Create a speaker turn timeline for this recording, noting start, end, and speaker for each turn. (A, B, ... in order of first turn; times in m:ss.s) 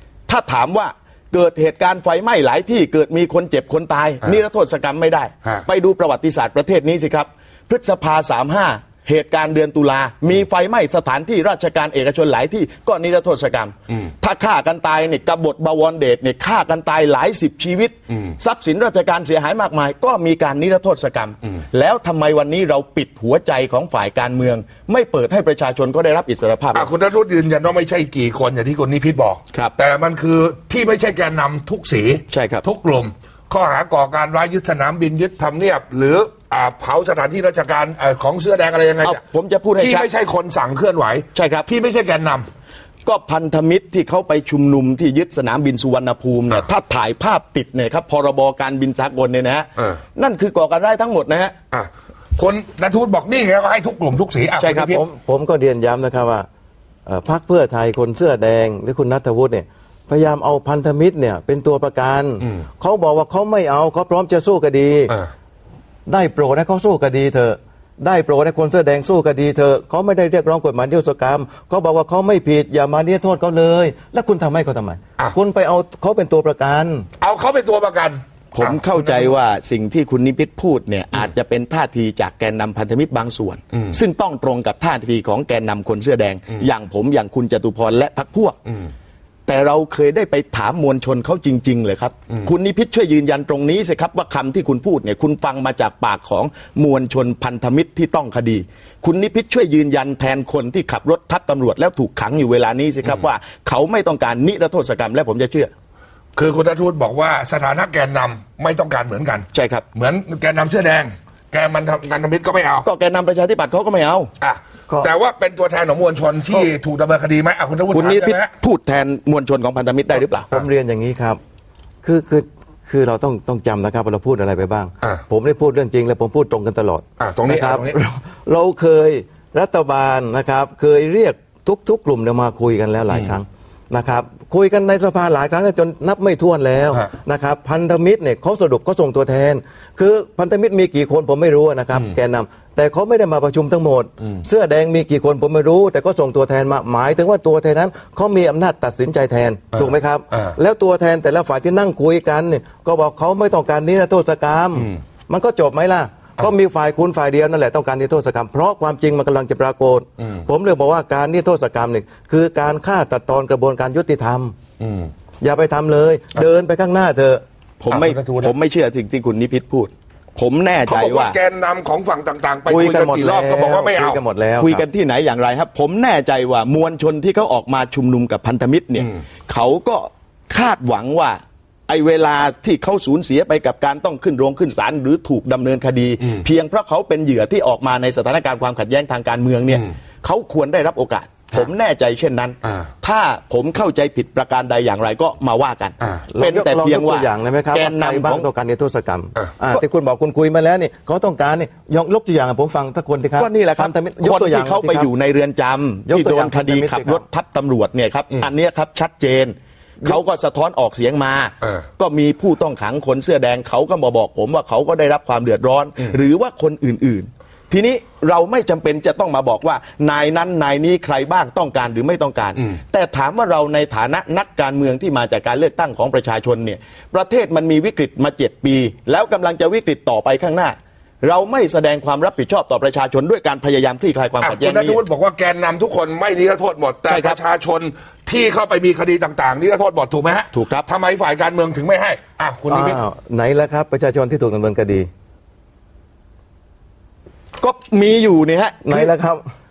0:00.3-0:26.9 A
0:18.1-0:18.4 B
0:26.7-0:39.2 B
0:32.3-0:32.6 A
0:39.0-0:40.1 A
0:39.8-0:42.5 B
0:41.3-0:41.7 A
0:43.0-0:51.5 A
0:51.7-0:55.0 B
0:54.6-0:55.0 A
0:54.9-0:56.5 C
0:57.1-1:05.1 C
1:06.1-1:17.1 C
1:17.2-1:19.3 B
1:18.5-1:28.6 A
1:23.7-1:24.0 B
1:28.7-1:28.9 B
1:29.4-1:45.7 A
1:46.4-1:52.8 B
1:49.5-1:49.8 A
1:52.8-1:54.3 A
1:54.4-1:58.5 B
1:57.9-2:00.5 A
2:00.5-2:01.4 C
2:02.0-2:44.5 C
2:07.2-2:08.0 B
2:13.1-2:13.4 B
2:29.7-2:30.6 B
2:44.8-2:45.1 B
2:45.4-2:47.4 C
2:47.8-2:51.4 A
2:47.9-2:48.5 B
2:50.9-2:54.2 B
2:52.6-2:54.8 C
2:54.6-3:18.5 A
3:12.6-3:12.9 B
3:16.0-3:16.3 B
3:16.3-3:25.1 C
3:23.4-3:55.0 A
3:26.1-3:27.2 C
3:54.4-4:03.0 B
3:57.1-3:57.4 A
4:00.5-4:00.8 A
4:02.7-4:05.1 C
4:07.6-4:09.1 A
4:08.8-4:09.4 C